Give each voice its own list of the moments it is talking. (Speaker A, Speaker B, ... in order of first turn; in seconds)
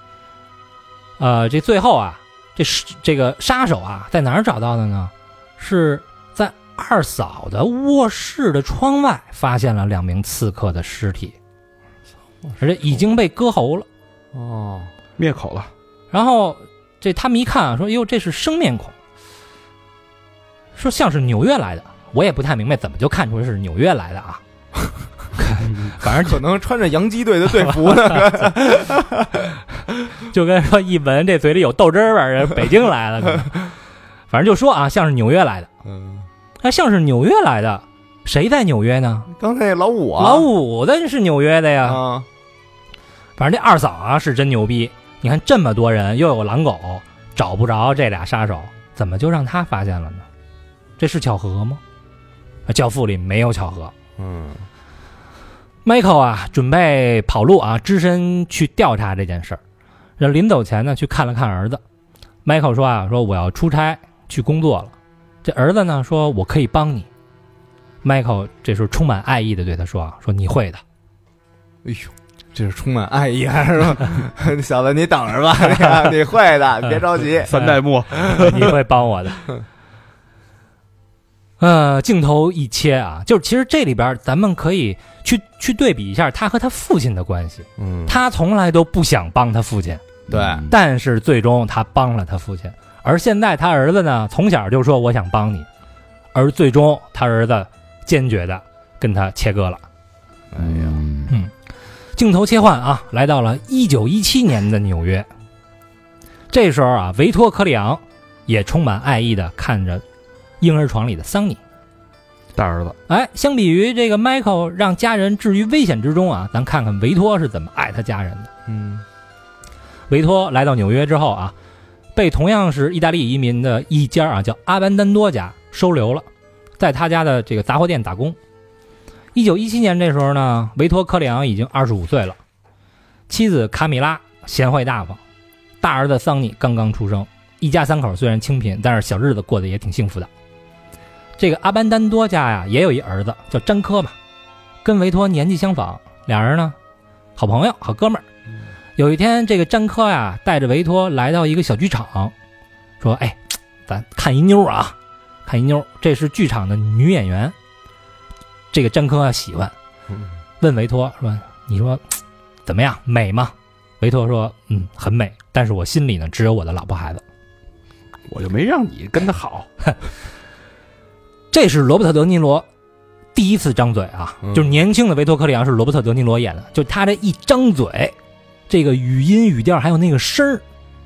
Speaker A: 1.2-11.3, 12.6-13.8, 16.1-18.9, 20.7-24.4, 25.5-26.4, 30.2-33.7, 34.3-35.7, 36.6-39.3, 40.2-42.0, 43.4-50.2, 51.0-51.8, 52.7-53.9, 55.8-59.6, 60.2-61.8, 62.4-67.1, 68.0-70.8, 77.5-79.5, 81.6-90.0, 90.7-95.7, 96.3-99.8, 102.2-105.3, 106.5-110.0, 110.6-111.6, 113.1-118.5, 120.1-121.5, 122.1-126.2, 126.8-128.4, 129.3-132.4, 133.3-135.2, 135.8-140.3, 141.4-144.1, 144.8-146.8, 147.4-148.2, 149.0-152.3, 153.0-154.9, 155.4-157.5, 158.7-159.7, 160.6-162.0, 162.7-167.2, 171.5-172.7, 173.3-178.1, 178.7-180.6
Speaker B: 14.3-14.9, 26.1-29.4, 35.8-36.3, 39.3-40.5, 41.8-42.2, 54.2-54.6, 71.8-77.5, 87.8-88.2, 90.3-90.6, 100.5-101.0, 118.7-119.0, 174.4-174.8
Speaker C: 15.2-15.7, 25.6-25.9, 77.4-78.7, 90.3-90.7, 100.6-101.3, 112.5-113.0, 168.3-169.7